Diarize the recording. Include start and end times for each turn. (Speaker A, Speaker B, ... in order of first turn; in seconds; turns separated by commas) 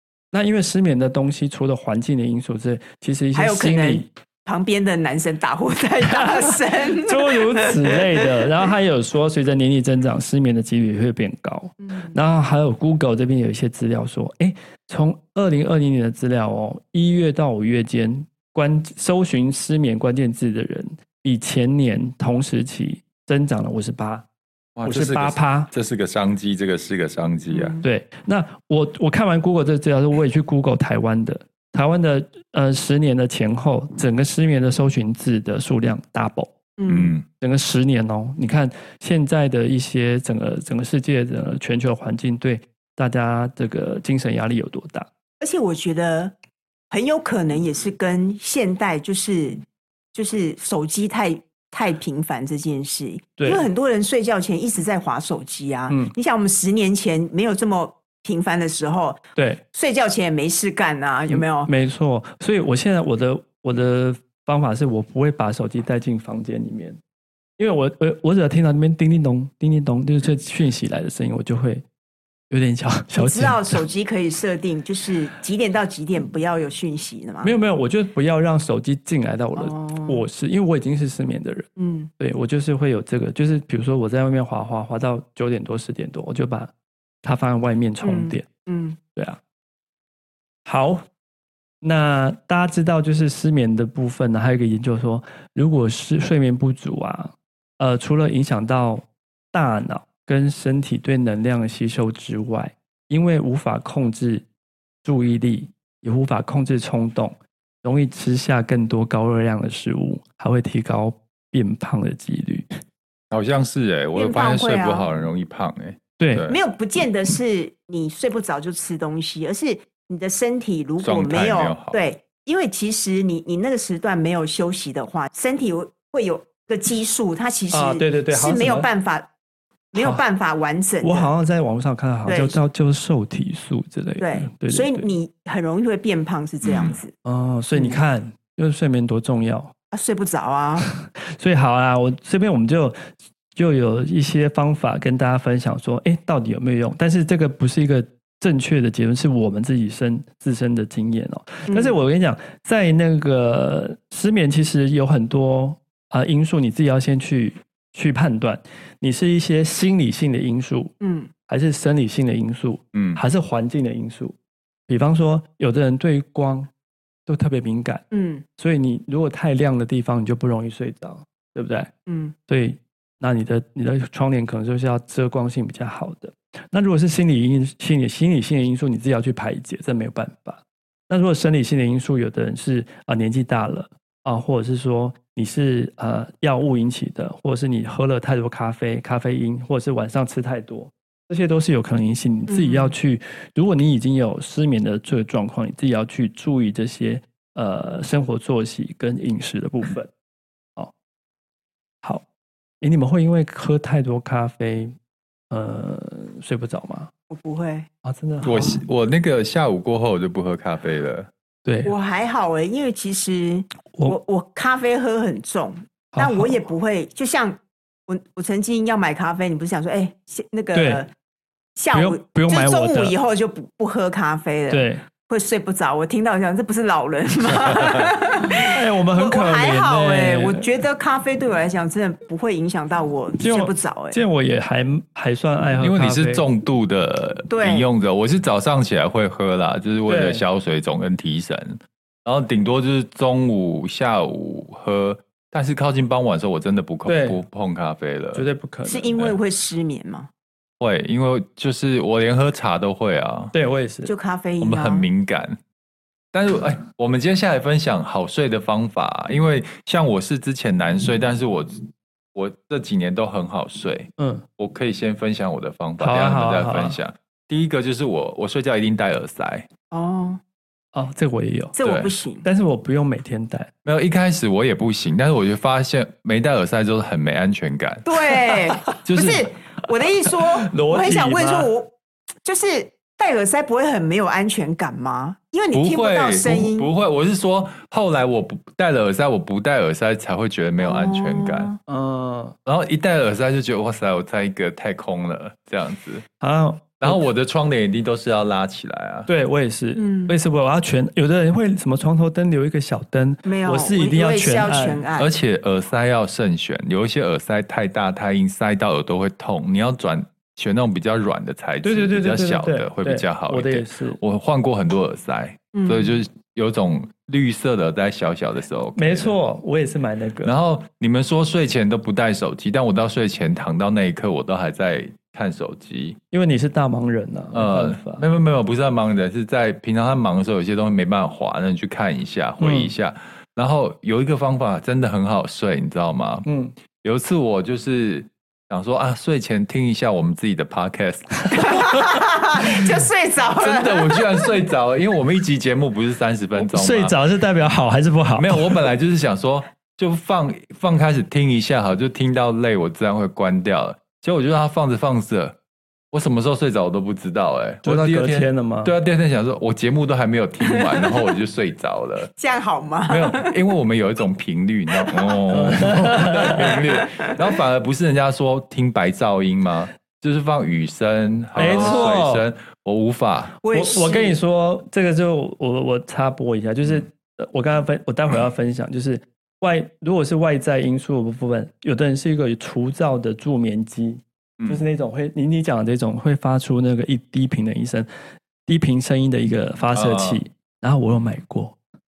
Speaker A: 0.3-4.1, Speaker B: 3.3-8.0, Speaker A: 6.0-24.2, Speaker B: 11.8-12.2, Speaker C: 24.8-27.7, Speaker A: 24.8-25.7, Speaker B: 27.5-27.8, Speaker A: 27.8-36.5, Speaker B: 36.8-37.1, Speaker C: 36.9-37.2, Speaker A: 37.4-45.1, Speaker B: 45.4-46.3, Speaker B: 46.9-49.6, Speaker B: 50.1-61.7, Speaker A: 53.4-53.6, Speaker A: 59.4-59.6, Speaker A: 61.3-67.0, Speaker A: 67.6-71.8, Speaker A: 72.5-73.8, Speaker B: 73.2-77.5, Speaker A: 77.4-81.7, Speaker B: 79.5-80.2, Speaker B: 81.8-82.1, Speaker A: 82.2-86.7, Speaker A: 87.2-88.5, Speaker B: 88.0-89.0, Speaker A: 90.7-91.0, Speaker A: 91.8-104.4, Speaker A: 105.0-112.7, Speaker C: 113.3-116.6, Speaker B: 114.2-115.1, Speaker A: 116.2-116.5, Speaker B: 116.5-129.3, Speaker C: 121.0-122.0, Speaker A: 127.7-128.9, Speaker B: 129.9-131.3, Speaker A: 129.9-130.2, Speaker A: 131.0-135.1, Speaker B: 132.2-132.6, Speaker B: 134.2-137.1, Speaker C: 136.6-136.9, Speaker A: 137.2-139.7, Speaker B: 137.7-138.0, Speaker B: 139.9-140.9, Speaker A: 140.8-143.0, Speaker A: 143.6-160.9, Speaker B: 151.7-152.0, Speaker B: 161.0-161.3, Speaker A: 161.5-164.3, Speaker C: 162.9-163.2, Speaker A: 164.9-166.7, Speaker A: 167.2-168.0, Speaker B: 168.1-168.4, Speaker A: 168.6-171.9, Speaker B: 172.1-172.3, Speaker A: 172.5-200.1, Speaker B: 192.5-192.9, Speaker A: 202.8-204.9, Speaker A: 205.5-207.1, Speaker B: 207.3-207.9, Speaker A: 208.0-208.8, Speaker C: 208.4-211.3, Speaker A: 211.7-211.9, Speaker B: 211.8-221.1, Speaker A: 216.1-216.6, Speaker A: 220.7-221.0, Speaker B: 221.8-234.2, Speaker A: 221.9-223.1, Speaker A: 224.7-225.0, Speaker A: 228.5-230.7, Speaker A: 233.4-236.4, Speaker C: 235.8-248.4, Speaker B: 237.5-237.9, Speaker A: 240.1-240.4, Speaker A: 247.0-247.4, Speaker A: 248.3-249.1, Speaker B: 248.8-250.3, Speaker C: 250.8-253.5, Speaker A: 253.5-254.1, Speaker B: 254.1-255.1, Speaker C: 254.6-255.6, Speaker C: 256.3-269.7, Speaker A: 264.2-264.4, Speaker A: 266.0-267.0, Speaker B: 269.9-270.4, Speaker A: 270.9-271.8, Speaker B: 271.7-272.4, Speaker C: 271.8-272.1, Speaker A: 272.4-273.7, Speaker C: 273.8-278.1, Speaker B: 278.1-281.9, Speaker A: 278.6-279.0, Speaker C: 279.0-279.5, Speaker A: 280.3-281.7, Speaker B: 282.4-286.9, Speaker C: 285.7-291.7, Speaker B: 290.8-291.8, Speaker A: 291.9-292.6, Speaker C: 292.6-296.2, Speaker A: 296.4-297.2, Speaker C: 297.0-299.3, Speaker A: 299.3-305.0, Speaker B: 300.0-300.4, Speaker B: 303.4-305.3, Speaker C: 305.2-319.3, Speaker A: 311.8-314.2, Speaker B: 315.7-316.1, Speaker A: 318.9-320.5, Speaker C: 320.4-326.2, Speaker A: 326.3-328.2, Speaker C: 327.5-336.4, Speaker A: 332.6-332.9, Speaker A: 336.4-336.7, Speaker C: 337.0-341.7, Speaker B: 341.5-344.5, Speaker C: 343.6-347.1, Speaker A: 346.6-348.8, Speaker C: 348.4-355.6, Speaker C: 356.1-362.3, Speaker A: 357.8-358.9, Speaker B: 360.7-361.3, Speaker B: 362.4-363.6, Speaker C: 363.1-373.5, Speaker B: 365.1-365.4, Speaker A: 365.5-366.6, Speaker B: 366.4-367.4, Speaker A: 371.6-372.4, Speaker B: 371.6-372.1, Speaker B: 373.6-374.4, Speaker A: 373.7-388.1, Speaker C: 384.6-384.9, Speaker A: 388.6-391.8, Speaker C: 389.9-390.4